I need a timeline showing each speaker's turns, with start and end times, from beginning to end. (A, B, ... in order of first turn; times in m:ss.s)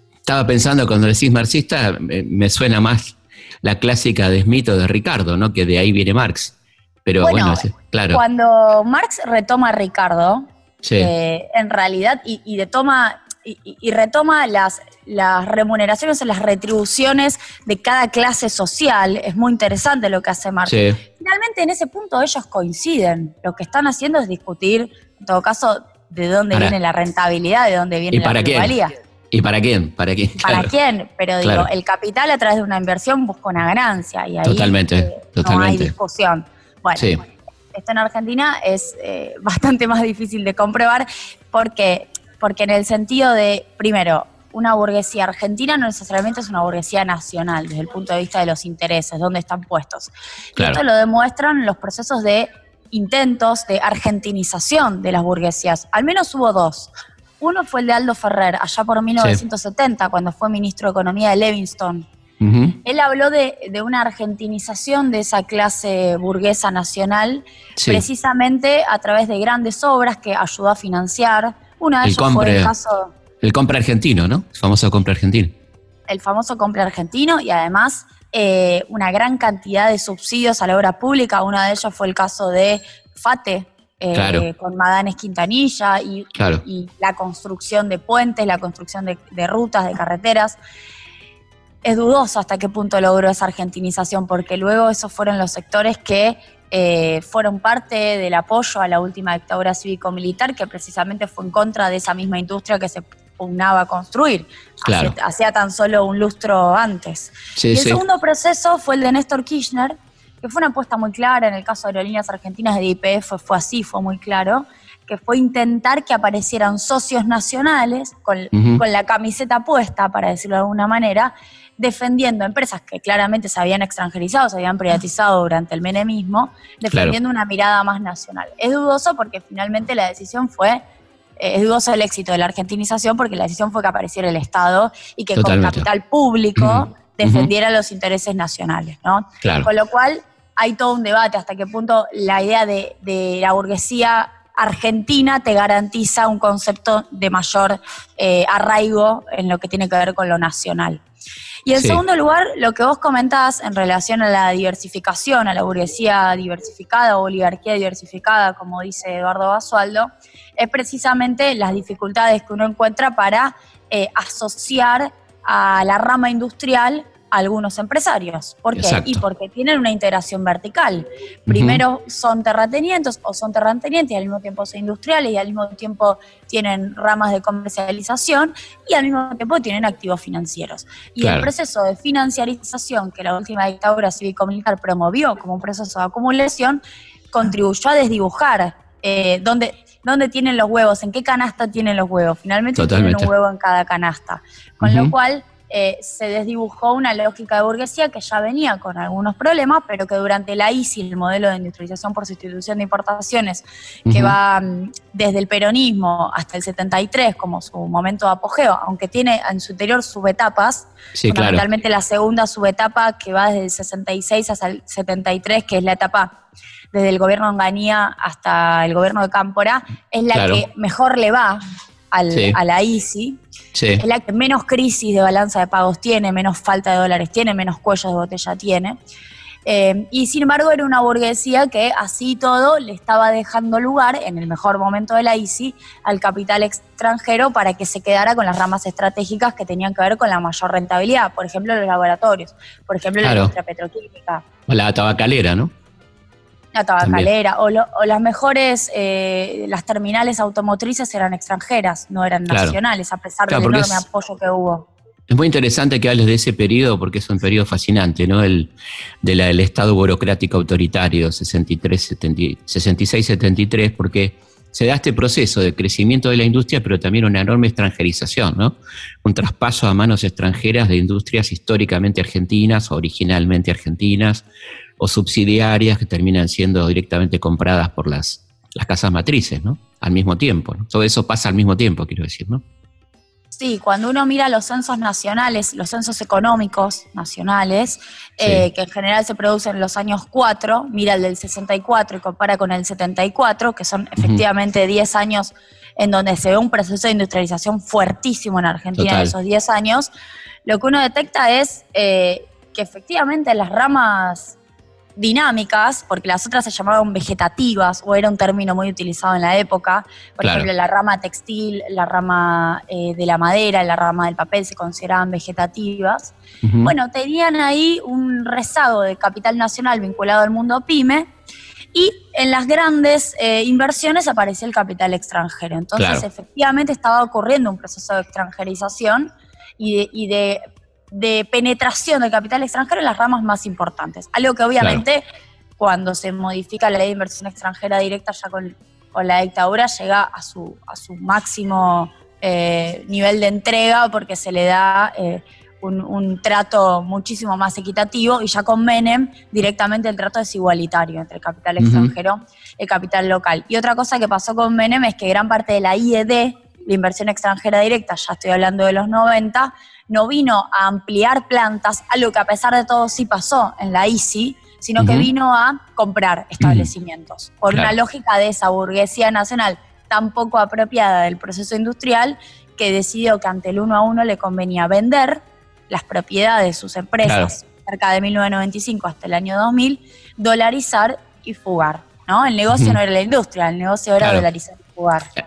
0:00.3-0:08.2 A
0:07.2-0:10.5 B
0:10.8-0:11.1 A
0:11.0-0:28.9 B
0:20.7-0:21.0 A
0:28.1-0:28.8 A
0:29.3-0:30.7 A
0:30.4-0:37.1 B
0:31.4-0:31.7 A
0:34.4-0:36.0 A
0:37.7-0:56.9 B
0:50.6-0:50.8 A
0:57.4-1:02.1 B
1:02.4-1:02.8 A
1:02.8-1:13.1 B
1:07.8-1:08.0 A
1:12.0-1:12.7 A
1:13.4-1:15.5 A
1:16.1-1:30.6 B
1:24.2-1:24.5 A
1:26.4-1:26.6 A
1:31.8-2:10.8 B
1:44.8-1:45.2 A
1:47.6-1:48.0 A
1:58.5-1:58.8 A
2:06.9-2:07.2 A
2:11.4-2:31.0 B
2:15.4-2:15.9 A
2:16.6-2:17.5 A
2:19.4-2:19.7 A
2:31.7-3:06.8 B
2:31.8-2:32.0 A
2:48.8-2:49.2 A
2:51.5-2:51.8 A
3:01.2-3:01.5 A
3:07.3-3:36.4 B
3:12.8-3:13.3 A
3:14.8-3:15.1 A
3:24.1-3:24.4 A
3:31.2-3:31.6 A
3:36.9-3:43.4 B
3:40.3-3:40.6 A
3:42.3-3:42.6 A
3:43.7-3:44.0 A
3:44.0-3:49.0 B
3:49.7-4:04.4 B
4:03.2-4:03.5 A
4:04.7-4:05.7 A
4:06.7-4:14.9 B
4:07.0-4:07.3 A
4:12.5-4:12.8 A
4:13.5-4:14.0 A
4:15.3-4:34.5 A
4:35.0-4:42.6 A
4:43.6-5:00.1 B
4:48.4-4:48.7 A
4:54.2-4:54.4 A
4:59.0-4:59.3 A
5:00.6-5:04.6 B
5:05.2-5:21.3 B
5:10.4-5:10.7 A
5:16.6-5:16.9 A
5:21.9-5:35.2 B
5:26.0-5:26.2 A
5:35.8-6:25.3 B
5:51.8-5:52.1 A
6:05.0-6:05.3 A
6:06.6-6:06.9 A
6:17.2-6:17.6 A
6:22.7-6:23.0 A
6:24.2-6:24.4 A